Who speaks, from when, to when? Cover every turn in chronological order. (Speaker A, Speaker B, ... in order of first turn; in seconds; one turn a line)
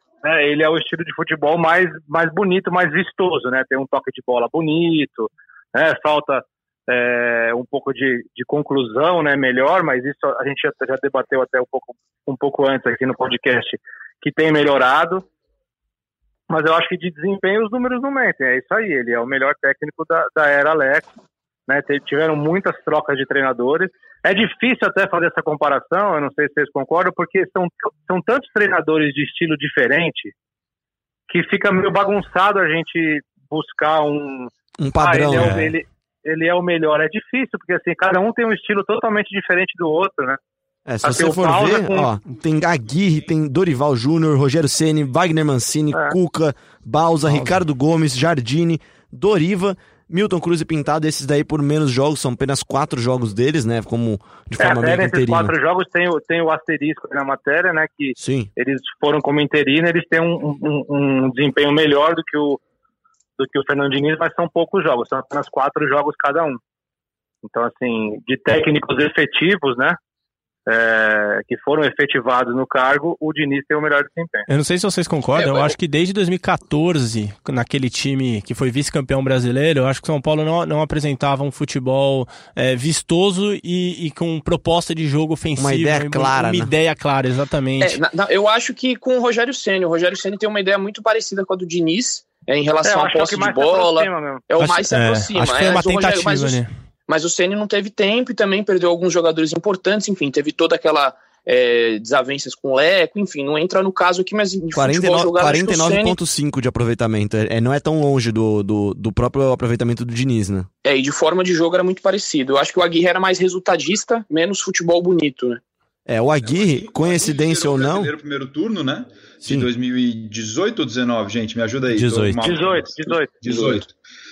Speaker A: 0.2-15.2
Speaker A: 16.5-21.1
Speaker A: 21.7-30.3
Speaker A: 31.3-40.4
Speaker B: 34.8-35.7
Speaker C: 35.4-35.7
Speaker B: 40.9-55.5
Speaker A: 41.0-42.1
Speaker A: 54.6-62.6
Speaker B: 58.2-58.5
Speaker A: 63.4-66.6
Speaker A: 67.4-70.0
Speaker A: 70.7-74.5
Speaker C: 74.5-88.0
Speaker D: 75.4-75.7
Speaker B: 85.6-86.7
Speaker D: 87.8-106.2
Speaker A: 92.8-94.5
Speaker C: 94.6-96.7
Speaker B: 104.7-110.7
Speaker D: 110.8-115.6
Speaker B: 116.1-118.1
Speaker E: 116.4-123.9
Speaker B: 122.0-122.3
Speaker A: 122.4-123.8